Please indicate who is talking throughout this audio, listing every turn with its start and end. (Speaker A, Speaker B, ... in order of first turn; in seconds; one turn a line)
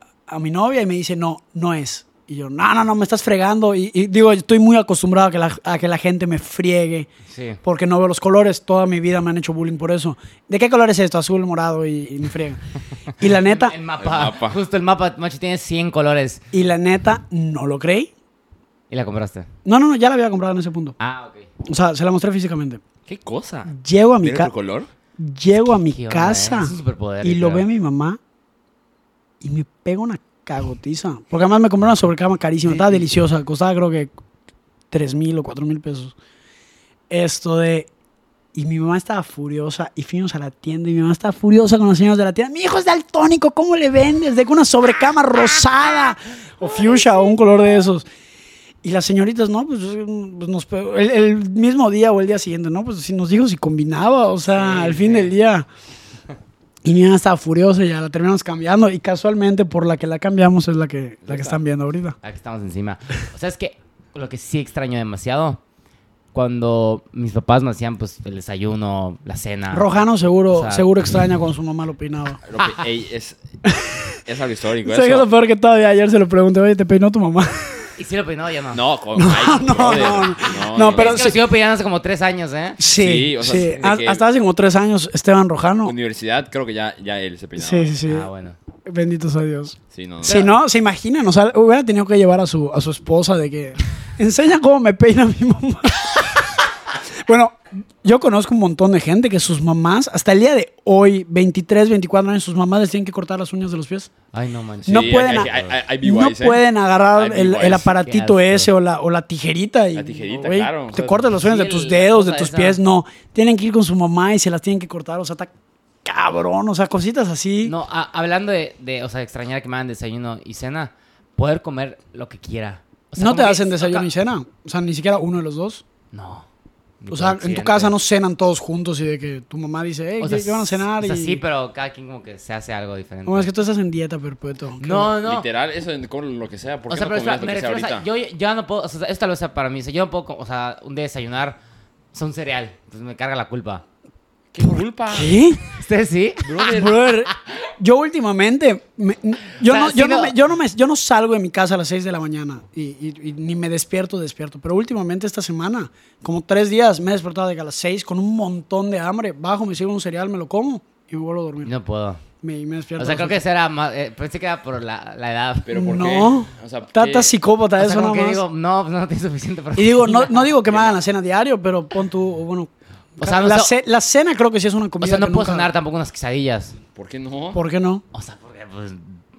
Speaker A: 0.3-7.1
Speaker B: 7.3-7.6
Speaker A: 7.6-12.6
Speaker A: 13.2-13.8
Speaker B: 13.3-16.4
Speaker C: 14.0-14.6
Speaker A: 16.5-18.1
Speaker B: 18.9-19.5
Speaker A: 19.6-21.0
Speaker B: 21.0-21.5
Speaker A: 21.7-22.8
Speaker C: 23.1-24.9
Speaker A: 23.7-24.5
Speaker A: 25.2-28.2
Speaker B: 25.9-27.7
Speaker A: 29.4-34.1
Speaker A: 34.9-36.1
Speaker A: 37.1-37.9
Speaker A: 38.5-48.1
Speaker A: 48.8-55.7
Speaker B: 54.6-55.3
Speaker A: 56.8-62.2
Speaker C: 61.2-61.6
Speaker B: 62.2-65.6
Speaker B: 66.3-69.9
Speaker A: 69.7-72.4
Speaker B: 70.5-70.9
Speaker C: 72.5-75.3
Speaker A: 73.7-74.0
Speaker A: 74.8-77.6
Speaker B: 78.0-78.8
Speaker C: 78.7-81.4
Speaker A: 79.2-81.4
Speaker B: 80.8-82.8
Speaker A: 82.8-85.9
Speaker C: 82.9-84.2
Speaker B: 83.6-84.0
Speaker C: 85.8-88.0
Speaker A: 87.6-88.3
Speaker B: 88.1-88.6
Speaker A: 88.9-96.6
Speaker C: 89.9-90.5
Speaker B: 90.2-90.5
Speaker A: 97.3-104.1
Speaker B: 104.3-105.8
Speaker C: 104.9-107.9
Speaker A: 104.9-115.5
Speaker B: 108.0-108.7
Speaker C: 110.0-111.3
Speaker B: 111.4-112.8
Speaker A: 116.0-117.7
Speaker B: 117.6-124.1
Speaker A: 123.2-125.8
Speaker B: 126.1-126.5
Speaker B: 127.0-128.0
Speaker A: 127.1-131.4
Speaker B: 130.2-133.5
Speaker A: 133.3-135.1
Speaker B: 134.8-135.5
Speaker C: 135.2-138.1
Speaker B: 136.9-141.6
Speaker B: 142.1-143.8
Speaker C: 144.5-145.4
Speaker A: 145.1-145.6
Speaker B: 145.7-146.7
Speaker C: 146.4-147.0
Speaker A: 146.7-161.7
Speaker B: 147.3-147.6
Speaker B: 149.6-150.3
Speaker B: 161.6-162.2
Speaker A: 162.4-163.4
Speaker B: 163.0-166.0
Speaker C: 165.7-167.4
Speaker A: 165.8-168.4
Speaker B: 167.8-170.5
Speaker A: 169.8-175.7
Speaker C: 170.7-171.0
Speaker B: 173.2-173.7
Speaker B: 175.0-176.8
Speaker C: 176.9-177.6
Speaker A: 177.5-178.0
Speaker B: 178.1-179.2